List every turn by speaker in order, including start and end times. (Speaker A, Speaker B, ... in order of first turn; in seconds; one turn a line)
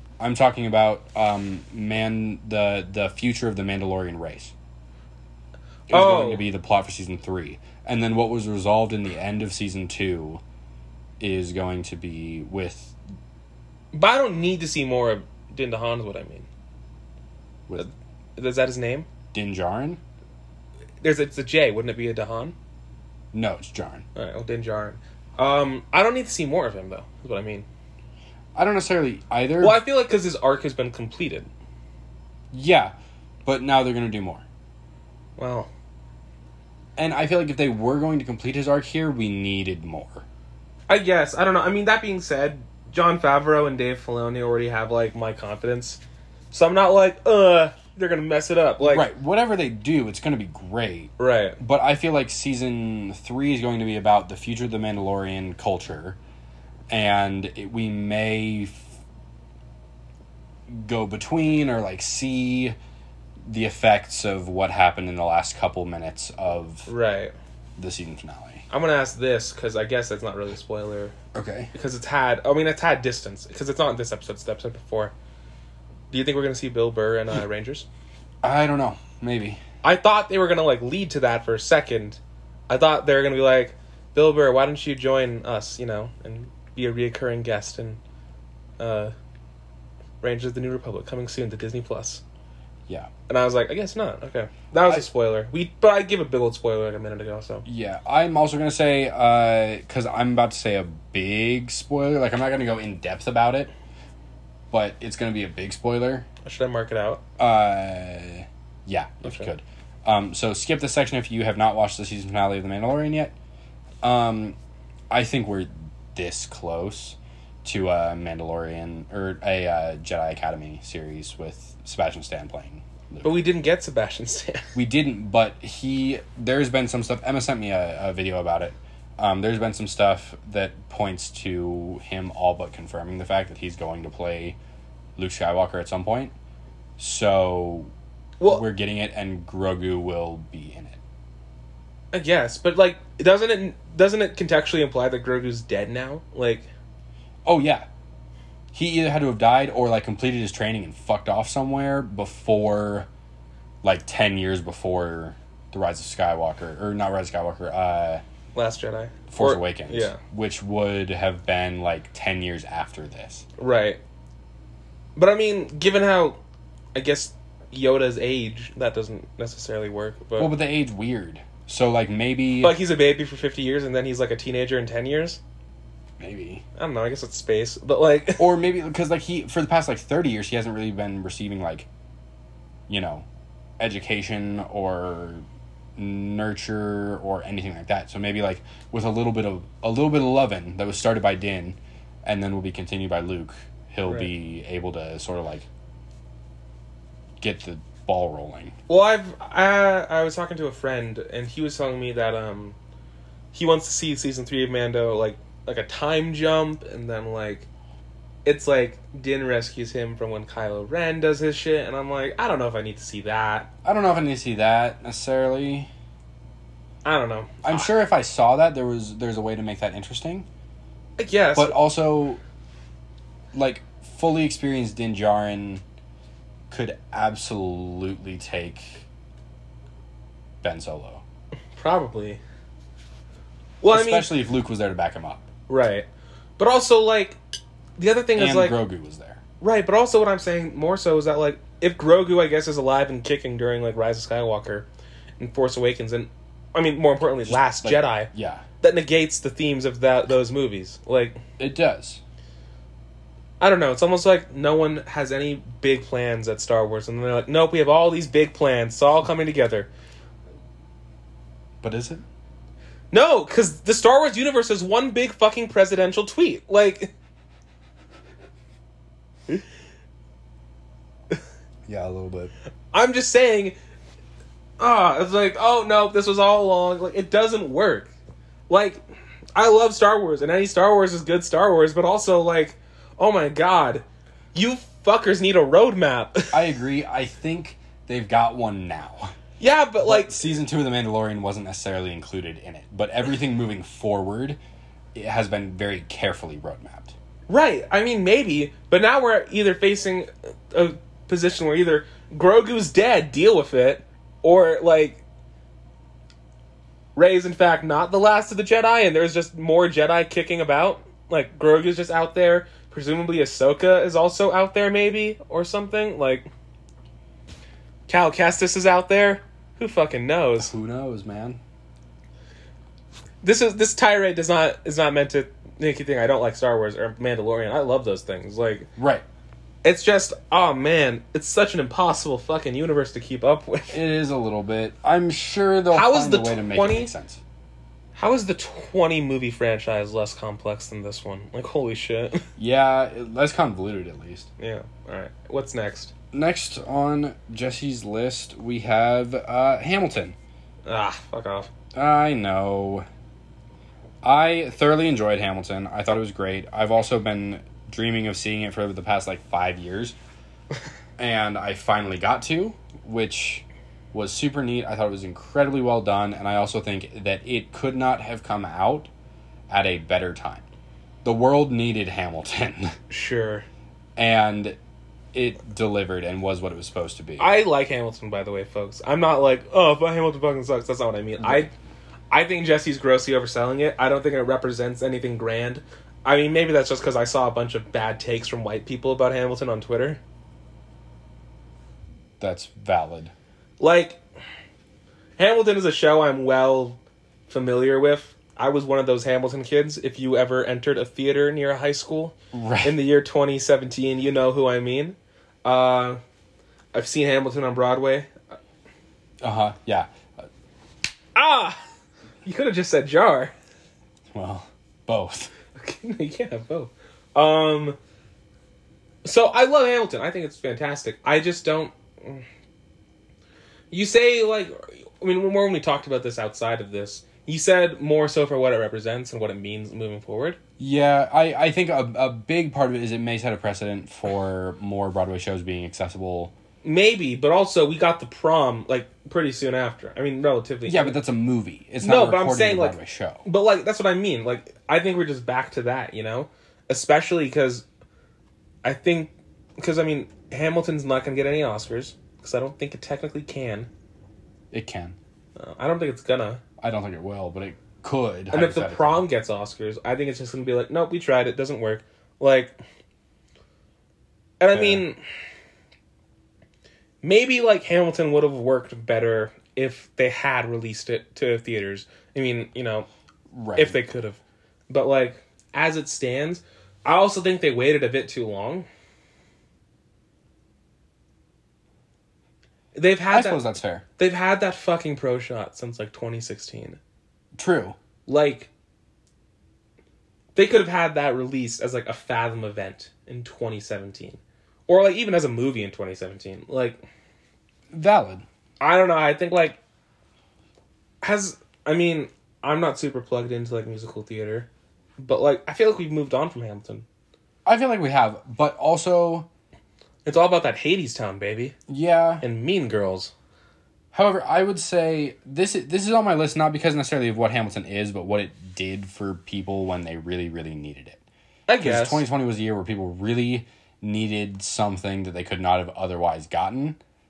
Speaker A: 0.2-4.5
Speaker B: 5.9-6.5
Speaker A: 5.9-10.4
Speaker A: 11.2-12.9
Speaker B: 13.9-16.5
Speaker B: 17.8-19.1
Speaker A: 19.3-20.0
Speaker B: 21.0-22.6
Speaker A: 23.3-24.1
Speaker B: 24.1-27.7
Speaker A: 28.6-29.8
Speaker B: 29.6-31.5
Speaker A: 32.5-34.4
Speaker B: 35.4-35.7
Speaker A: 37.0-40.2
Speaker B: 40.9-46.0
Speaker B: 46.5-49.1
Speaker A: 48.8-56.2
Speaker B: 51.2-51.6
Speaker A: 56.9-58.9
Speaker A: 60.7-62.8
Speaker A: 63.4-66.9
Speaker B: 66.9-67.3
Speaker A: 67.8-68.7
Speaker B: 68.7-71.2
Speaker A: 71.3-71.7
Speaker B: 71.7-75.1
Speaker B: 76.1-77.9
Speaker A: 78.4-79.6
Speaker B: 79.8-88.0
Speaker B: 88.8-89.1
Speaker B: 90.2-92.2
Speaker B: 93.3-97.6
Speaker A: 97.7-103.7
Speaker A: 104.7-106.3
Speaker B: 106.5-107.2
Speaker A: 107.4-113.3
Speaker B: 109.2-109.5
Speaker A: 114.0-114.6
Speaker A: 115.1-123.4
Speaker B: 123.2-124.7
Speaker A: 124.8-134.6
Speaker A: 135.2-136.3
Speaker A: 137.0-137.9
Speaker A: 138.4-141.0
Speaker B: 142.1-146.7
Speaker A: 147.5-147.9
Speaker A: 148.7-153.1
Speaker A: 153.8-158.2
Speaker B: 158.6-160.2
Speaker A: 159.3-163.4
Speaker B: 163.6-164.0
Speaker B: 165.2-166.4
Speaker B: 166.9-170.5
Speaker A: 170.4-172.8
Speaker B: 172.6-175.4
Speaker A: 176.2-176.6
Speaker B: 176.8-178.5
Speaker A: 178.4-181.9
Speaker A: 182.9-183.3
Speaker A: 183.8-185.4
Speaker A: 186.0-195.7
Speaker A: 197.4-198.8
Speaker B: 198.9-202.8
Speaker B: 203.5-207.7
Speaker B: 208.4-213.7
Speaker A: 213.8-215.9
Speaker B: 217.1-217.9
Speaker A: 217.6-220.5
Speaker B: 221.2-221.8
Speaker A: 221.6-222.4
Speaker A: 223.5-225.8
Speaker A: 226.7-229.1
Speaker A: 230.6-231.2
Speaker B: 231.8-232.4
Speaker B: 233.8-234.3
Speaker A: 233.9-235.5
Speaker B: 235.7-236.1
Speaker B: 236.6-237.4
Speaker B: 238.0-238.8
Speaker A: 238.4-239.4
Speaker B: 239.6-244.9
Speaker B: 245.4-248.3
Speaker A: 247.4-248.7
Speaker B: 248.8-251.4
Speaker A: 251.6-252.2
Speaker B: 253.6-259.9
Speaker A: 261.8-262.2
Speaker B: 263.1-267.1
Speaker A: 271.9-272.5
Speaker B: 272.9-273.8
Speaker B: 274.8-278.1
Speaker B: 278.7-279.0
Speaker B: 279.6-286.7
Speaker A: 286.5-289.4
Speaker B: 289.6-290.4
Speaker A: 290.0-294.6
Speaker A: 295.1-297.1
Speaker B: 297.5-305.2
Speaker B: 307.1-316.5
Speaker B: 318.1-320.7
Speaker A: 320.6-321.6
Speaker B: 323.4-328.9
Speaker A: 329.0-329.2
Speaker B: 329.8-334.0
Speaker A: 333.9-337.4
Speaker B: 335.9-337.1
Speaker B: 338.1-342.5
Speaker A: 342.6-344.5
Speaker B: 344.6-346.1
Speaker A: 346.3-350.4
Speaker B: 350.9-351.7
Speaker A: 351.9-353.1
Speaker A: 354.2-360.2
Speaker A: 361.2-369.1
Speaker A: 369.7-370.6
Speaker A: 371.2-373.0
Speaker B: 373.1-373.7
Speaker A: 374.2-374.8
Speaker A: 375.3-377.5
Speaker B: 377.4-381.7
Speaker A: 381.4-381.7
Speaker B: 382.3-390.2
Speaker A: 392.4-393.3
Speaker B: 393.8-394.2
Speaker B: 395.4-406.2
Speaker A: 402.5-403.0
Speaker B: 406.9-408.4
Speaker A: 409.4-410.4
Speaker B: 411.4-411.8
Speaker B: 412.4-413.5
Speaker A: 414.3-415.5
Speaker B: 415.8-418.0
Speaker B: 419.2-422.4
Speaker B: 423.9-430.6
Speaker A: 430.8-436.5
Speaker B: 436.8-441.2
Speaker A: 440.9-443.4
Speaker B: 442.0-447.9
Speaker B: 448.8-453.9
Speaker A: 454.7-455.2
Speaker B: 455.6-456.6
Speaker A: 456.8-459.3
Speaker B: 458.5-462.8
Speaker B: 464.6-465.2
Speaker A: 464.7-465.1
Speaker B: 467.2-473.1
Speaker A: 473.5-474.0
Speaker B: 473.8-478.9
Speaker B: 482.9-483.6
Speaker A: 483.3-484.1
Speaker B: 484.2-487.0
Speaker A: 487.6-488.0
Speaker B: 488.3-488.7
Speaker B: 490.6-497.0
Speaker A: 497.9-498.4
Speaker B: 498.8-499.8
Speaker B: 501.2-507.1
Speaker A: 507.6-509.5
Speaker B: 510.2-511.8
Speaker A: 511.9-512.4
Speaker B: 512.4-513.3
Speaker A: 514.1-521.2
Speaker B: 521.7-522.2
Speaker A: 521.8-527.0